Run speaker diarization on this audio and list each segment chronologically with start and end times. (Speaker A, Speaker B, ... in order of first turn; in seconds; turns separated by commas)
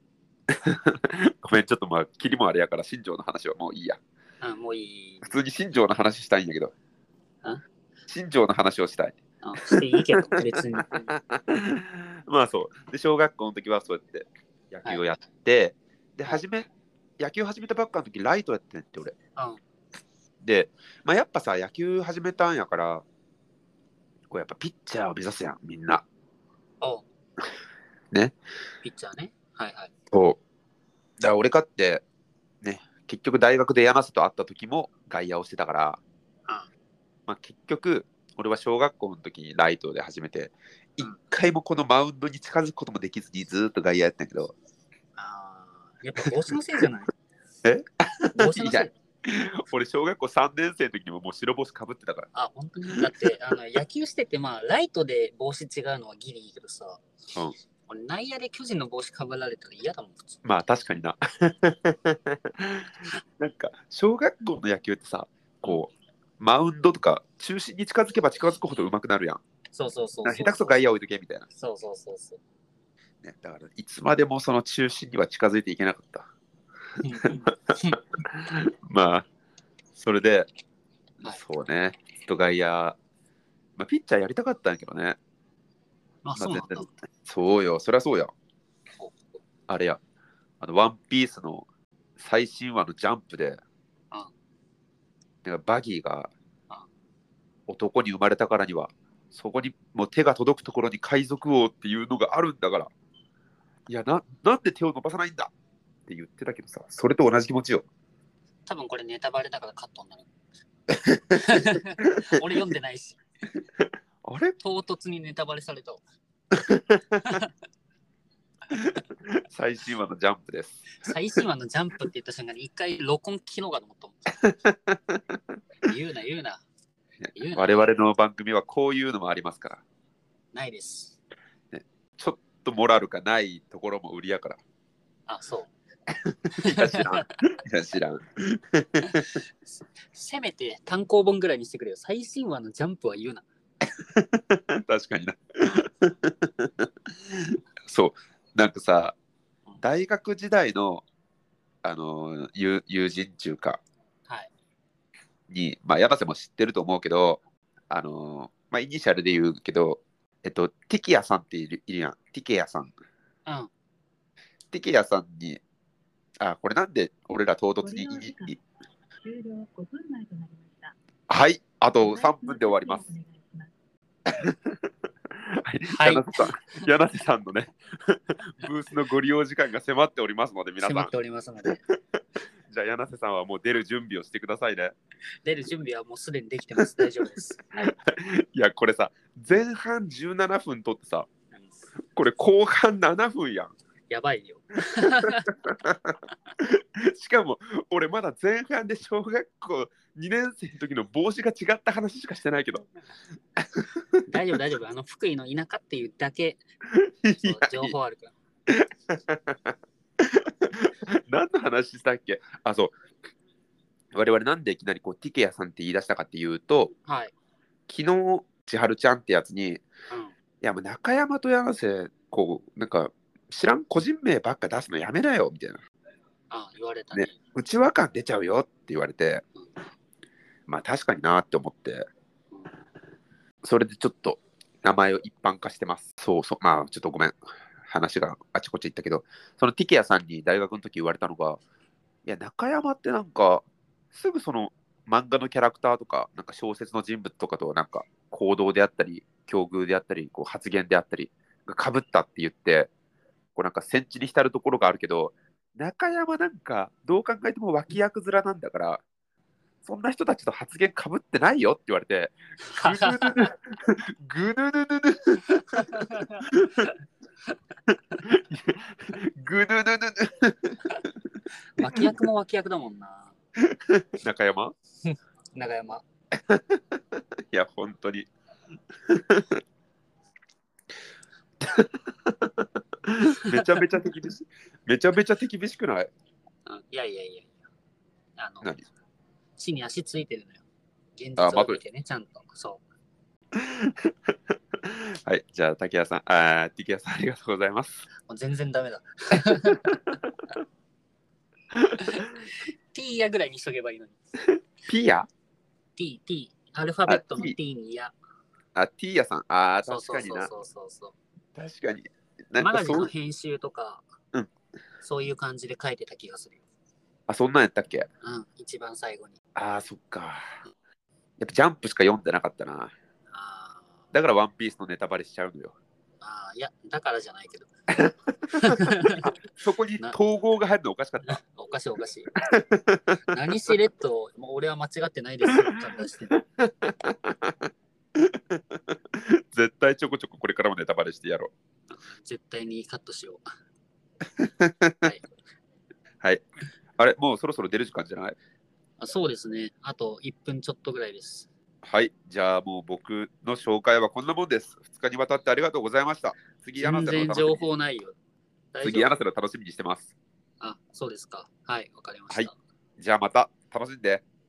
Speaker A: 0.5-4.0, Speaker B: 4.4-5.3, Speaker A: 5.2-6.7, Speaker A: 8.1-19.1, Speaker B: 9.4-11.2, Speaker B: 14.8-15.1, Speaker A: 20.4-23.1, Speaker A: 24.3-26.0, Speaker B: 28.8-29.9, Speaker A: 30.1-30.4, Speaker A: 31.2-32.0, Speaker A: 32.6-36.0, Speaker A: 37.3-44.5, Speaker B: 45.2-47.1, Speaker A: 47.6-52.3, Speaker B: 48.4-48.9, Speaker B: 52.3-57.0, Speaker B: 57.9-60.4, Speaker A: 60.5-69.4, Speaker B: 69.7-70.8, Speaker A: 70.2-71.5, Speaker B: 71.5-72.4, Speaker A: 73.2-76.3, Speaker B: 77.0-78.0, Speaker A: 77.5-79.3, Speaker A: 80.0-80.5, Speaker A: 81.2-83.0, Speaker A: 83.8-85.2, Speaker B: 86.2-86.9, Speaker A: 86.4-88.3, Speaker B: 89.0-89.4, Speaker A: 89.7-90.0, Speaker A: 90.6-91.7, Speaker A: 92.2-93.6, Speaker A: 95.5-96.3, Speaker A: 97.7-102.9, Speaker A: 103.9-105.5, Speaker A: 106.1-107.9, Speaker B: 108.7-110.3, Speaker B: 111.3-113.2, Speaker A: 114.2-114.6, Speaker B: 114.6-116.0, Speaker A: 116.7-117.2, Speaker A: 119.5-121.1, Speaker B: 121.0-124.4, Speaker A: 124.4-125.4, Speaker B: 125.8-126.6, Speaker A: 127.3-129.8, Speaker B: 127.3-128.0, Speaker B: 130.5-131.2, Speaker A: 131.7-134.6, Speaker B: 135.3-135.7, Speaker A: 136.3-139.0, Speaker B: 136.6-137.3, Speaker B: 139.1-143.4, Speaker A: 144.0-149.2, Speaker A: 149.8-151.1, Speaker A: 151.8-153.8, Speaker A: 155.5-162.9, Speaker A: 164.7-165.6, Speaker A: 166.4-168.6, Speaker C: 167.9-168.6, Speaker C: 169.2-170.9, Speaker A: 171.3-173.1, Speaker C: 172.0-173.7, Speaker A: 174.3-174.8, Speaker A: 175.3-181.1, Speaker B: 175.9-176.8, Speaker B: 180.8-181.8, Speaker A: 182.7-184.9, Speaker B: 185.4-187.9, Speaker A: 187.8-191.3, Speaker A: 192.1-193.7, Speaker B: 194.1-195.5, Speaker A: 195.2-202.9, Speaker A: 203.6-203.9, Speaker B: 204.3-206.6, Speaker A: 206.9-207.9, Speaker B: 207.4-208.3, Speaker A: 208.7-212.9, Speaker A: 214.1-216.9, Speaker B: 217.1-217.3, Speaker A: 217.9-219.8, Speaker A: 220.6-225.8, Speaker B: 226.5-227.4, Speaker A: 227.1-229.4, Speaker A: 230.7-232.1, Speaker A: 233.6-241.6, Speaker A: 242.2-252.9, Speaker A: 253.6-259.0, Speaker A: 259.8-266.9, Speaker B: 262.6-263.5, Speaker B: 265.8-266.5, Speaker A: 268.2-271.0, Speaker B: 271.8-273.4, Speaker A: 271.8-272.2, Speaker A: 273.7-274.7, Speaker B: 275.1-276.0, Speaker A: 276.5-278.3, Speaker A: 279.1-279.6, Speaker A: 281.6-286.1, Speaker B: 286.7-287.6, Speaker B: 288.4-288.8, Speaker B: 289.6-290.6, Speaker B: 291.2-292.8, Speaker A: 291.4-291.8, Speaker A: 293.6-298.1, Speaker B: 298.3-300.0, Speaker A: 299.5-299.9, Speaker A: 301.8-302.2, Speaker B: 302.0-304.2, Speaker A: 304.8-305.3, Speaker B: 306.0-308.1, Speaker A: 307.1-307.6, Speaker A: 308.8-310.5, Speaker B: 309.9-311.2, Speaker A: 311.6-313.1, Speaker B: 312.6-314.1, Speaker B: 315.0-316.6, Speaker A: 317.3-318.1, Speaker B: 318.2-319.4, Speaker A: 319.6-320.5, Speaker A: 321.4-322.9, Speaker B: 323.3-324.0, Speaker A: 324.1-325.8, Speaker B: 326.2-327.7, Speaker A: 328.0-328.8, Speaker B: 328.5-329.4, Speaker A: 329.6-331.4, Speaker B: 331.3-332.3, Speaker A: 332.5-333.2, Speaker B: 333.3-336.4, Speaker A: 336.6-341.5, Speaker B: 341.9-343.4, Speaker A: 344.4-345.1, Speaker B: 345.0-345.3, Speaker A: 347.0-348.4, Speaker B: 349.0-351.5, Speaker A: 351.8-357.7, Speaker B: 356.8-358.2, Speaker B: 358.7-359.2, Speaker A: 358.8-360.1, Speaker B: 360.6-362.6, Speaker A: 362.3-364.2